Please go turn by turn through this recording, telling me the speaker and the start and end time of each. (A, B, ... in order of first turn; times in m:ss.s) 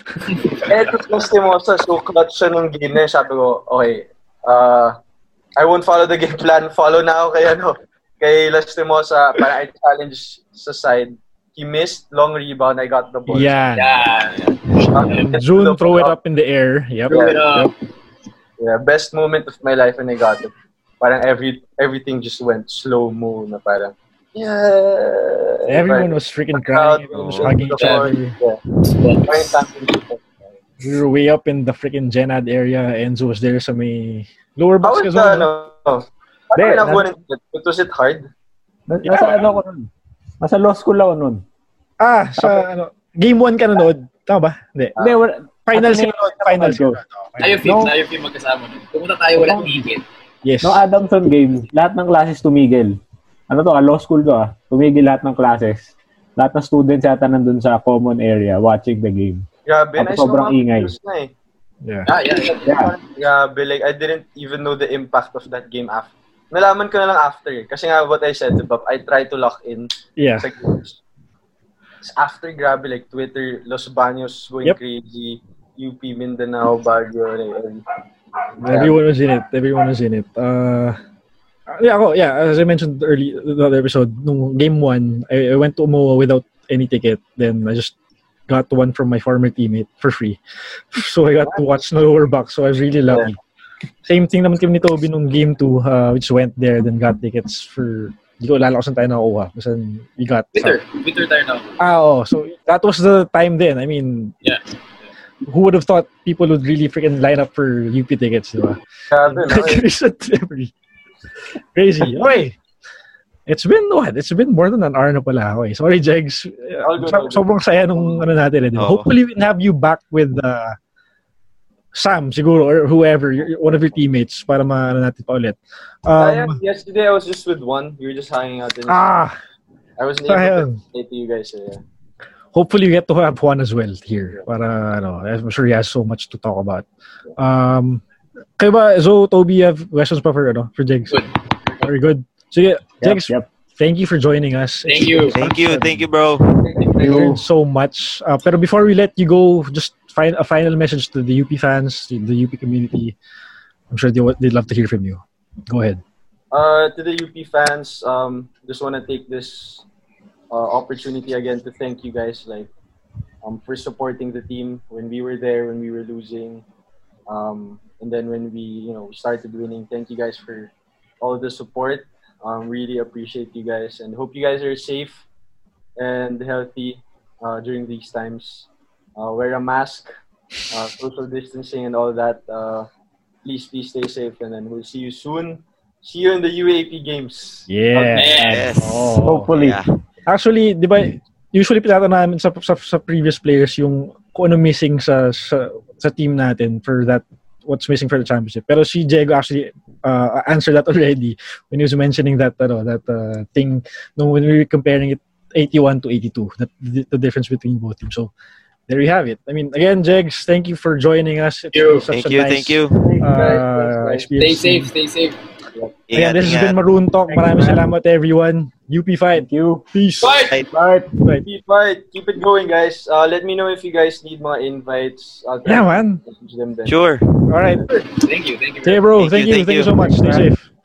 0:00.3-0:00.6 A
0:00.6-0:05.0 B
0:05.6-0:13.6 B
0:13.3-0:14.1 C
0:13.8-0:15.3 A
0:14.9-0:16.2 B
0:15.2-0:17.7 C
0:17.1-0:17.4 B
0:17.1-0:17.7 A
0:18.6-0:28.6 B
0:25.7-0:28.4 C
0:27.4-0:28.1 A
0:28.8-0:29.8 A
0:29.2-0:30.5 B
0:30.8-0:35.5 C
0:34.8-0:38.3 B
0:36.6-0:37.1 D
0:38.9-0:39.9 D
0:39.0-0:39.4 C
0:40.4-0:41.4 D
0:42.0-0:45.0 C
0:42.4-0:42.6 D
0:45.0-0:47.0 D
0:45.7-0:47.6 C
0:47.4-0:50.0 A
0:47.6-0:47.9 D
0:49.4-0:49.8 D
0:50.4-0:50.8 C
0:50.6-0:53.0 D
0:53.5-0:59.5 D
0:59.7-1:01.3 B
1:00.0-1:01.0 D
1:01.8-1:02.1 C
1:02.0-1:02.8 A
1:02.1-1:09.9 B
1:02.7-1:02.9 D
1:10.2-1:10.5 C
1:10.4-1:11.0 B
1:12.0-1:17.8 B
1:18.6-1:19.0 B
1:18.6-1:21.0 C
1:21.7-1:27.9 C
1:28.5-1:30.4 C
1:30.9-1:33.4 C
1:31.4-1:31.7 B
1:33.1-1:33.3 B
1:34.1-1:40.8 C
1:40.5-1:41.8 A
1:41.8-1:44.4 C
1:44.4-1:44.7 A
1:45.4-1:50.7 C
1:49.1-1:49.9 B
1:51.7-1:52.6 C
1:52.0-1:52.3 B
1:53.5-2:00.8 C
1:56.8-1:58.3 B
1:58.8-1:59.1 E
2:01.9-2:06.6 C
2:06.2-2:09.1 B
2:08.9-2:09.4 C
2:10.0-2:11.8 B
2:10.3-2:10.8 C
2:12.5-2:16.9 C
2:17.4-2:18.0 C
2:18.6-2:21.2 C
2:21.1-2:21.9 A
2:21.8-2:26.1 C
2:23.0-2:23.5 D
2:24.8-2:25.4 A
2:25.3-2:26.6 E
2:26.6-2:27.4 B
2:27.0-2:27.4 D
2:27.0-2:33.2 C
2:33.9-2:36.0 C
2:36.5-2:39.8 B
2:40.5-2:42.7 B
2:43.4-2:46.6 B
2:47.3-2:50.7 B
2:51.2-2:55.2 B
2:56.0-3:00.1 B
3:00.7-3:02.9 B
3:03.4-3:08.6 B
3:07.7-3:09.5 C
3:08.1-3:08.8 A
3:08.4-3:09.9 E
3:09.2-3:09.8 D
3:10.3-3:28.3 C
3:28.9-3:34.9 C
3:31.7-3:32.1 A
3:32.1-3:33.0 E
3:33.0-3:34.3 B
3:34.4-3:35.4 A
3:36.1-3:36.8 E
3:36.1-3:41.4 C
3:37.3-3:37.8 D
3:39.3-3:39.8 D
3:40.2-3:40.6 A
3:40.7-3:41.1 D
3:41.4-3:47.0 B
3:45.6-3:46.2 C
3:46.9-3:47.8 E
3:47.5-3:48.2 C
3:48.2-3:49.1 A
3:48.8-3:50.7 C
3:49.2-3:50.4 E
3:50.2-3:50.5 B